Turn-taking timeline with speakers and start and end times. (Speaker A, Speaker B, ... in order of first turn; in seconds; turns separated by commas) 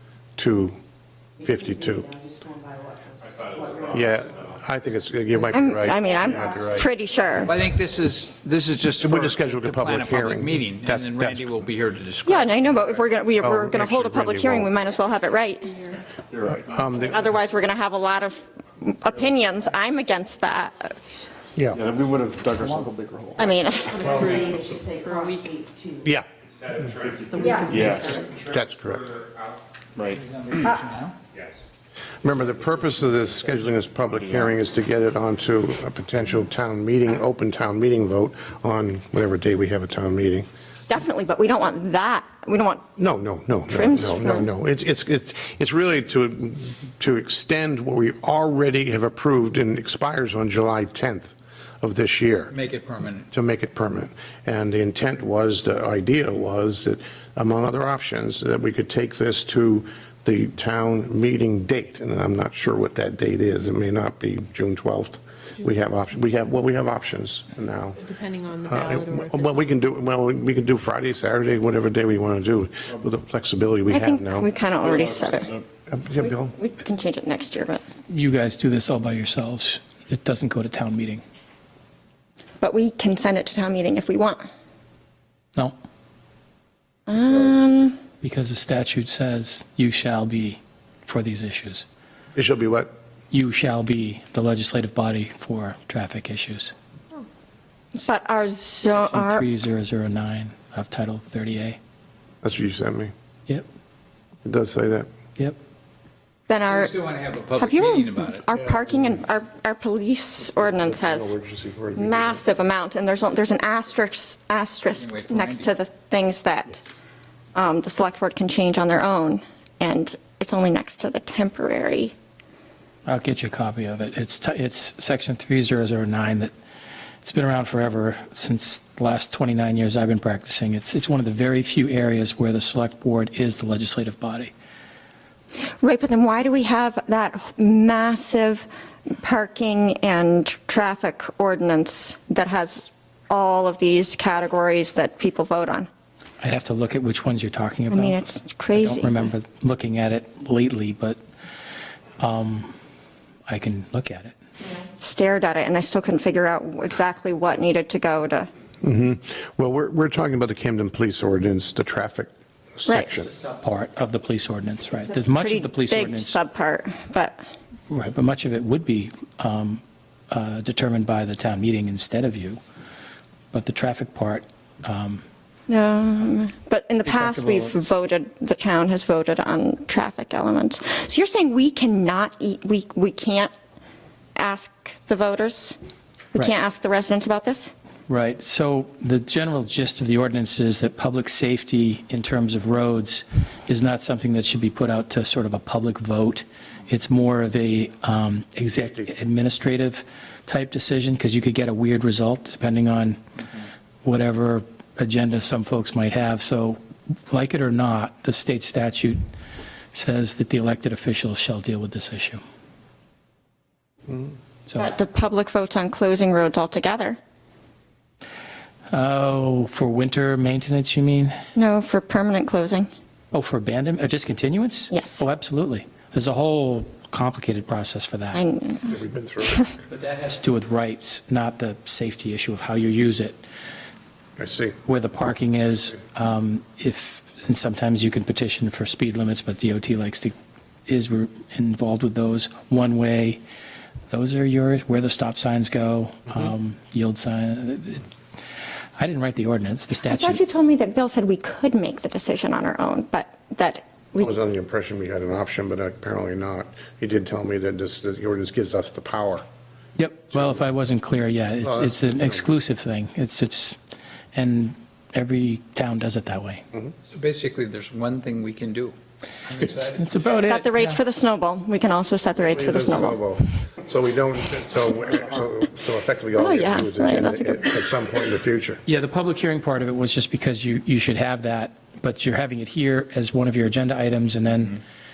Speaker A: 0.3-0.8, Speaker B: 1.4-4.2, Speaker A: 1.4-2.1, Speaker C: 3.2-4.6, Speaker A: 3.9-6.9, Speaker D: 5.5-7.5, Speaker B: 5.8-6.8, Speaker E: 7.4-12.8, Speaker A: 9.0-11.6, Speaker D: 12.2-15.9, Speaker A: 13.4-14.7, Speaker F: 16.3-17.1, Speaker A: 16.5-17.2, Speaker D: 17.0-21.0, Speaker A: 21.6-21.8, Speaker F: 21.7-23.6, Speaker D: 23.4-24.0, Speaker B: 23.8-26.2, Speaker G: 24.0-25.5, Speaker A: 24.0-24.4, Speaker C: 26.4-29.6, Speaker F: 27.0-28.3, Speaker G: 27.3-28.2, Speaker B: 27.3-28.2, Speaker A: 28.3-29.1, Speaker F: 29.9-30.7, Speaker E: 30.1-31.2, Speaker A: 32.2-40.5, Speaker C: 32.9-33.3, Speaker F: 34.1-34.5, Speaker D: 40.9-42.9, Speaker A: 43.0-52.5, Speaker D: 43.7-44.5, Speaker E: 52.5-53.3, Speaker A: 53.3-68.0, Speaker G: 68.0-69.8, Speaker A: 68.6-74.5, Speaker D: 73.9-75.5, Speaker F: 74.8-75.6, Speaker A: 75.9-76.5, Speaker D: 76.2-77.8, Speaker H: 78.1-81.2, Speaker D: 82.6-84.4, Speaker D: 87.1-88.0, Speaker H: 88.2-91.8, Speaker A: 92.3-92.9, Speaker H: 93.3-96.7, Speaker D: 97.9-99.5, Speaker H: 98.8-101.8, Speaker A: 102.4-103.1, Speaker A: 104.4-105.1, Speaker D: 106.5-106.9, Speaker E: 106.6-108.4, Speaker D: 107.5-111.3, Speaker A: 108.5-109.2, Speaker A: 110.4-112.4, Speaker D: 111.9-116.8, Speaker E: 114.9-115.7, Speaker D: 117.5-122.1, Speaker H: 123.0-126.5, Speaker H: 127.2-134.5, Speaker D: 135.8-145.9, Speaker H: 146.4-151.2, Speaker D: 147.9-149.2, Speaker H: 152.2-152.7, Speaker H: 153.5-154.3, Speaker D: 154.6-158.5, Speaker A: 158.8-163.3, Speaker H: 163.1-166.4, Speaker D: 164.9-167.4, Speaker H: 167.9-172.6, Speaker H: 173.5-175.2, Speaker D: 175.7-183.5, Speaker H: 177.0-178.0, Speaker D: 184.3-185.8, Speaker D: 186.3-187.7, Speaker H: 188.1-203.2, Speaker A: 198.7-199.1, Speaker H: 204.0-209.2, Speaker H: 209.9-212.4, Speaker H: 214.7-214.9, Speaker D: 214.8-217.2, Speaker H: 218.9-221.3, Speaker D: 221.6-222.9, Speaker H: 223.3-228.4, Speaker D: 224.9-225.2, Speaker D: 228.3-229.7, Speaker A: 228.9-229.7, Speaker H: 229.9-233.4, Speaker A: 234.4-234.8, Speaker H: 234.8-240.3, Speaker H: 240.8-243.4, Speaker H: 244.1-248.1, Speaker H: 249.0-250.4, Speaker D: 250.1-254.3, Speaker A: 254.2-259.4, Speaker H: 259.9-263.8, Speaker A: 260.3-260.6, Speaker A: 261.6-262.4, Speaker H: 264.3-266.6, Speaker E: 267.1-268.9, Speaker E: 269.4-270.1, Speaker H: 270.0-271.0, Speaker D: 270.2-273.2, Speaker A: 272.4-278.8, Speaker D: 276.4-277.7, Speaker H: 278.9-284.8